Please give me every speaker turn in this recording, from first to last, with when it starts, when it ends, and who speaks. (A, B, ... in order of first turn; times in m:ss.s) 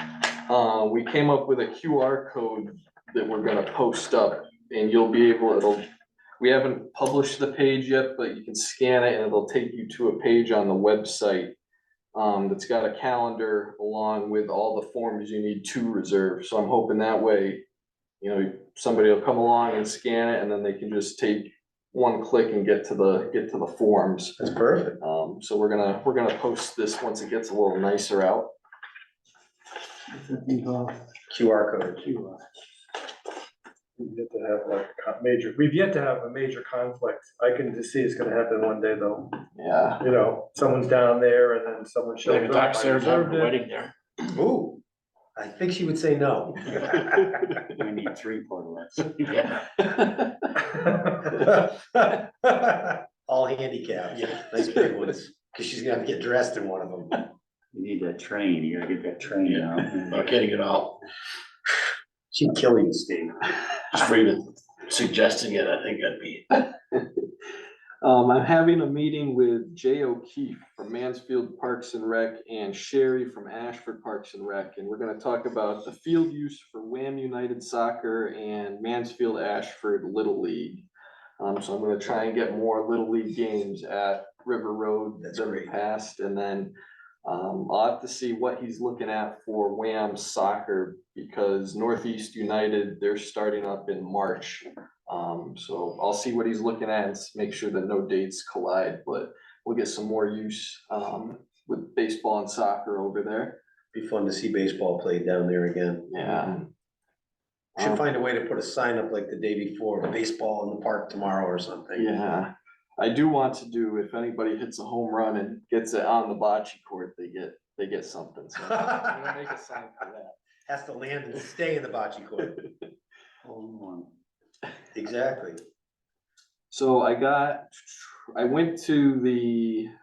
0:00.5-0:05.8 A
0:06.4-0:11.6 A
0:12.2-0:17.6 A
0:18.2-0:24.4 A
0:24.4-0:25.0 B
0:25.0-0:28.5 A
0:30.2-0:31.0 C
0:31.3-0:32.1 B
0:32.0-0:32.4 C
0:34.0-0:39.4 D
0:39.6-0:40.0 A
0:40.0-0:43.5 D
0:42.2-0:43.9 E
0:44.3-0:44.8 B
0:45.4-0:47.2 B
0:47.0-0:47.6 A
0:47.7-0:49.4 C
0:49.3-0:49.7 E
0:49.8-0:50.8 A
0:51.4-0:57.3 B
0:57.7-1:00.3 C
0:59.4-1:01.0 E
1:02.3-1:03.4 B
1:03.9-1:06.4 E
1:06.5-1:07.1 A
1:08.0-1:20.8 A
1:21.4-1:26.7 A
1:25.2-1:25.8 B
1:27.2-1:43.6 A
1:43.9-1:46.5 B
1:46.1-1:46.7 A
1:47.8-1:48.0 A
1:47.8-1:52.1 B
1:52.0-2:00.3 A
2:00.7-2:02.6 B
2:03.4-2:04.1 C
2:04.9-2:05.6 B
2:06.7-2:09.9 A